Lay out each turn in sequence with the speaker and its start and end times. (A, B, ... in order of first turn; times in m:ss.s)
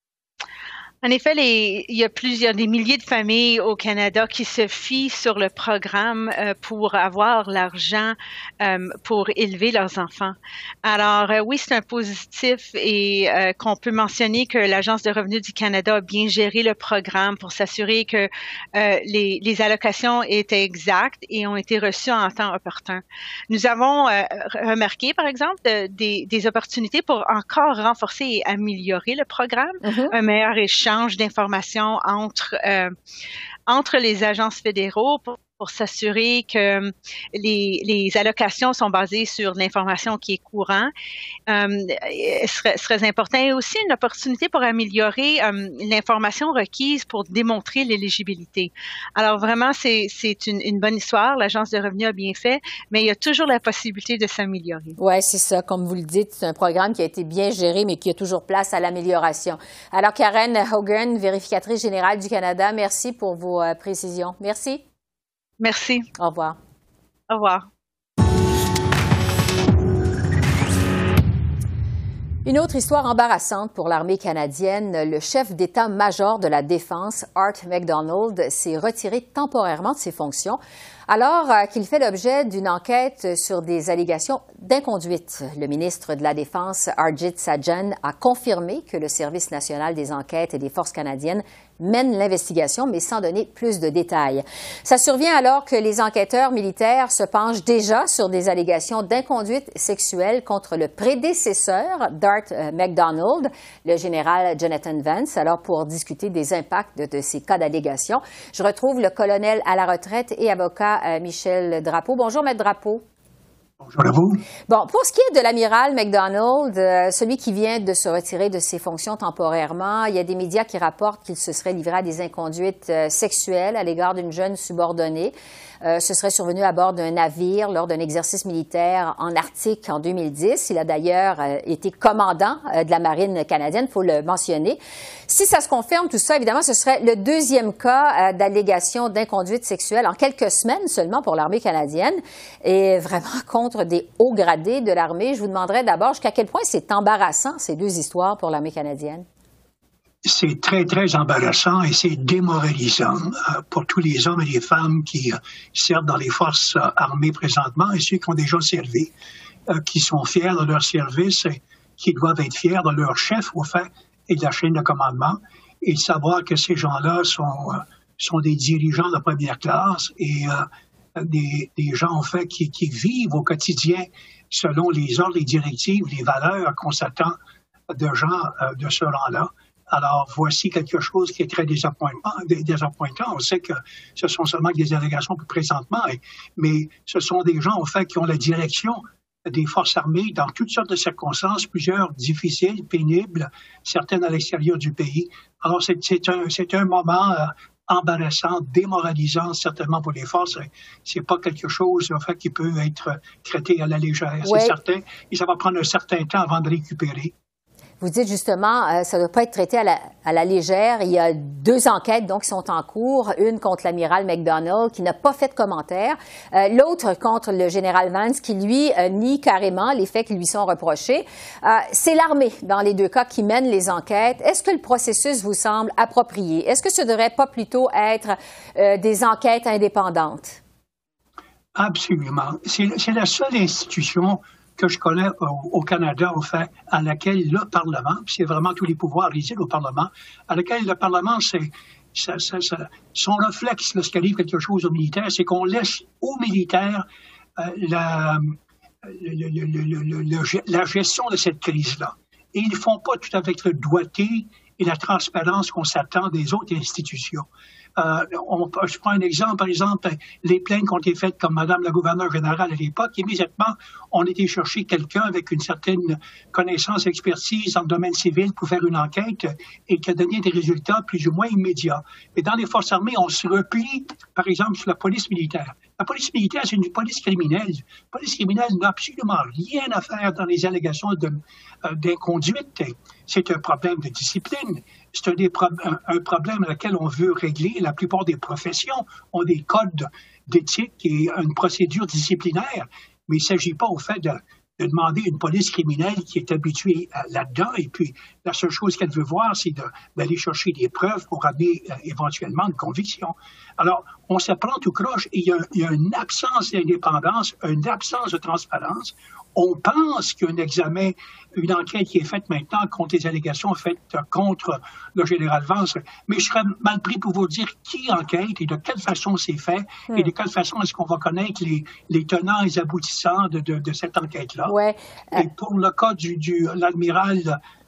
0:01.0-0:32.9 A
0:29.8-0:30.1 B
0:33.7-0:40.9 A
0:41.5-0:55.0 A
0:55.0-1:04.8 B
1:05.6-1:06.1 A
1:06.2-1:06.6 B
1:07.3-1:07.7 A
1:12.4-1:53.0 B
1:53.8-1:54.4 C
1:54.7-2:29.2 B
2:30.2-2:39.1 C
2:39.7-2:57.4 C
2:57.9-3:27.3 C
3:24.4-3:24.8 B
3:28.0-3:50.6 B
3:51.8-4:07.0 C
4:07.6-5:24.8 C
5:24.7-5:25.5 B
5:25.4-5:27.6 C